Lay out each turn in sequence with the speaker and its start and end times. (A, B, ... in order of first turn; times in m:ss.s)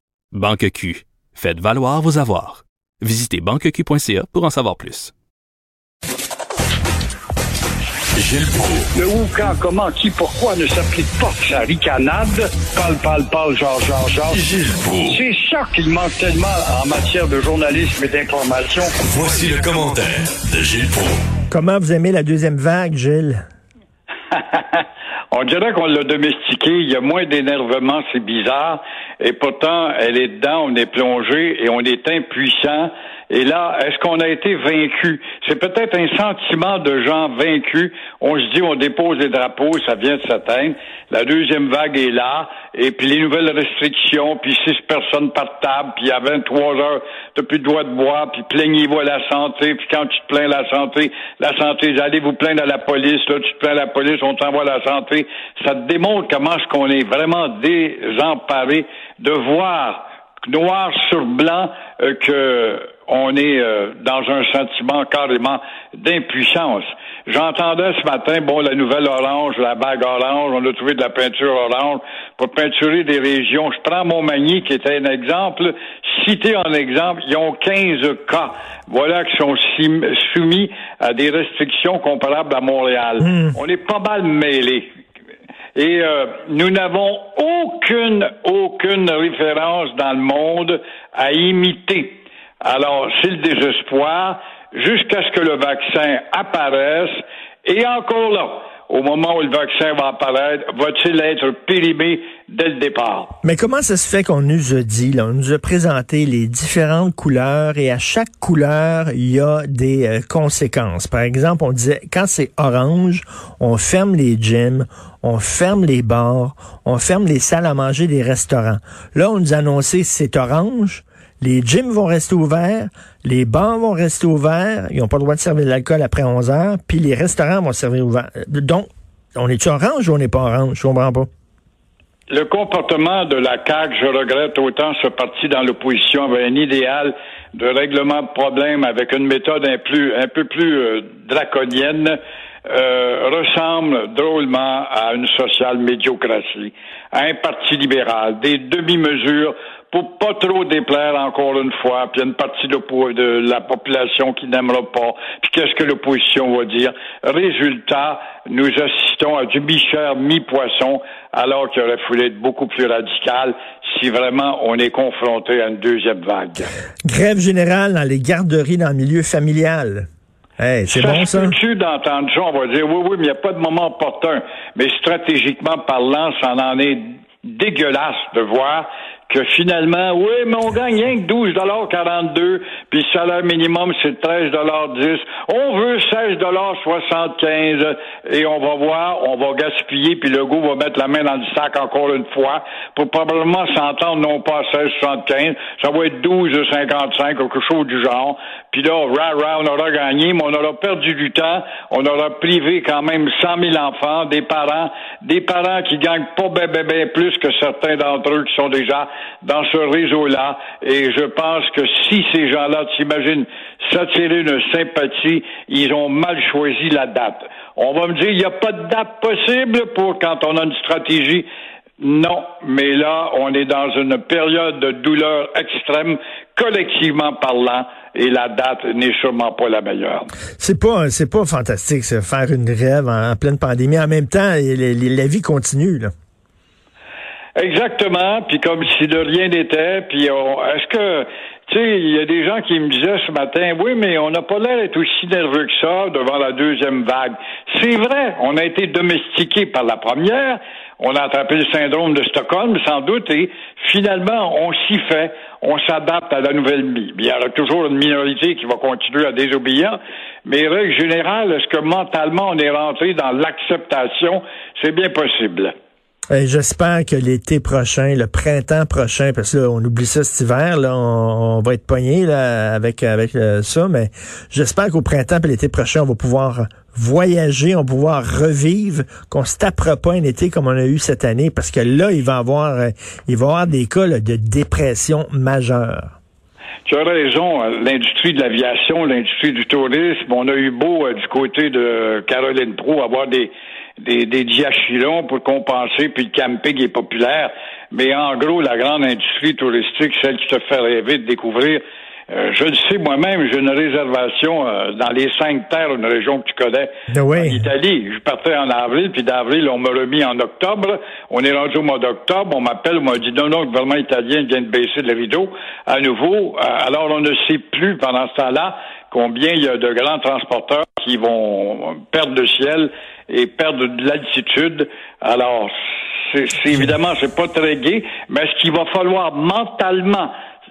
0:00.3-0:05.1 A
0:08.1-0:08.9 B
0:08.9-0:18.9 C
0:14.5-0:15.2 B
0:19.0-0:21.2 B
0:21.5-0:23.4 D
0:24.3-1:24.8 C
1:25.7-1:43.3 C
1:43.4-2:11.3 D
2:12.3-2:22.2 C
2:22.7-2:46.7 C
2:47.0-2:50.1 D
2:50.6-2:51.6 D
2:50.9-3:41.4 C
3:42.0-3:50.3 C
3:50.6-3:56.1 D
3:57.6-4:25.7 C
4:26.3-4:46.1 D
4:46.8-5:30.3 C
5:07.1-5:07.6 D